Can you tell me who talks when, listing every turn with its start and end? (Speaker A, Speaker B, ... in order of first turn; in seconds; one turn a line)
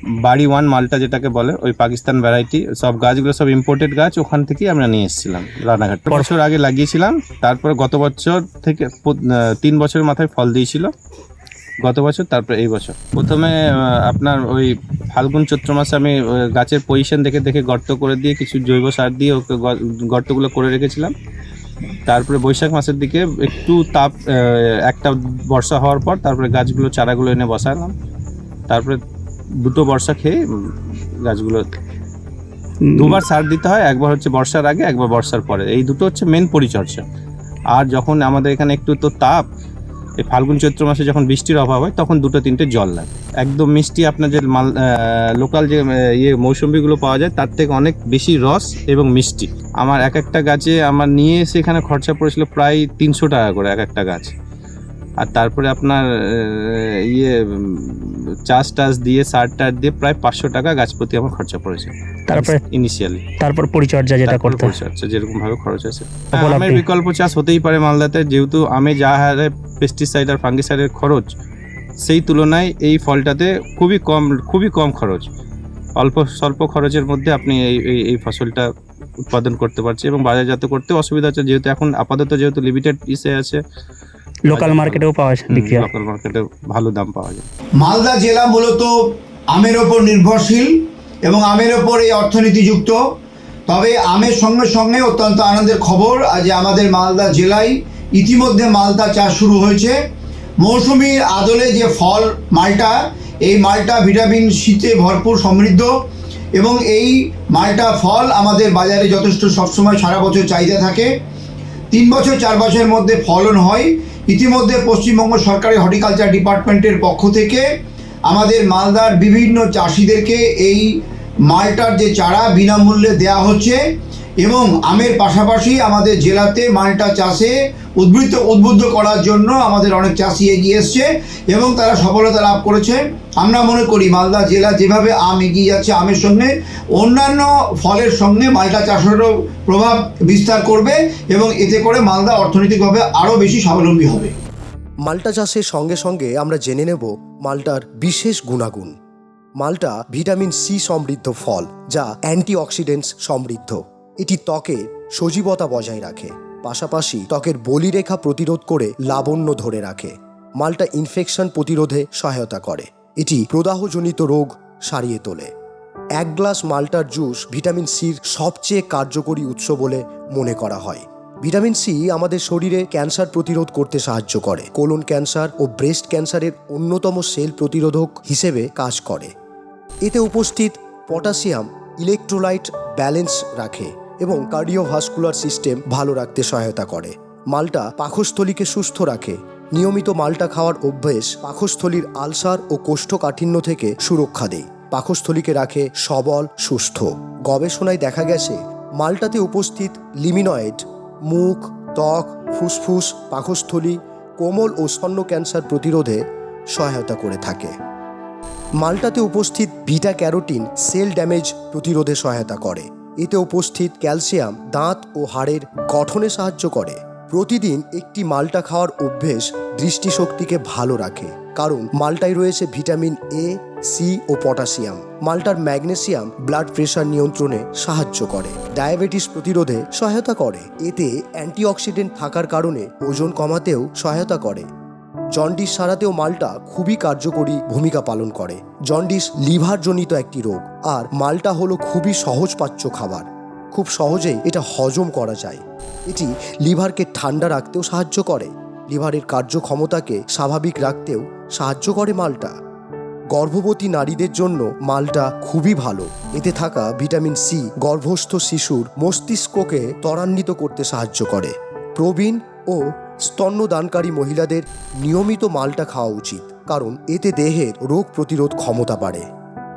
Speaker A: 0.2-10.9
Speaker A: 11.8-21.1
Speaker A: 22.1-27.9
Speaker A: 28.7-29.0
Speaker A: 29.6-31.6
Speaker B: 32.8-33.1
Speaker A: 33.0-37.0
Speaker A: 37.7-39.4
Speaker A: 40.2-54.3
Speaker A: 55.2-63.2
Speaker B: 62.3-62.6
Speaker B: 63.4-64.7
Speaker A: 64.2-71.3
Speaker B: 66.4-66.8
Speaker A: 72.0-75.3
Speaker A: 76.0-78.7
Speaker A: 79.2-83.6
Speaker B: 84.5-85.8
Speaker A: 84.5-87.5
Speaker C: 87.8-88.9
Speaker C: 89.5-90.7
Speaker C: 91.2-93.0
Speaker C: 93.7-100.0
Speaker C: 100.6-105.9
Speaker C: 106.6-111.1
Speaker C: 111.9-117.7
Speaker C: 118.3-120.9
Speaker C: 121.5-123.8
Speaker C: 124.4-144.3
Speaker D: 145.0-148.9
Speaker D: 149.6-165.5
Speaker D: 166.2-179.3
Speaker D: 180.0-206.2
Speaker D: 206.8-207.7
Speaker D: 208.8-234.7
Speaker D: 235.3-252.5
Speaker D: 253.3-269.2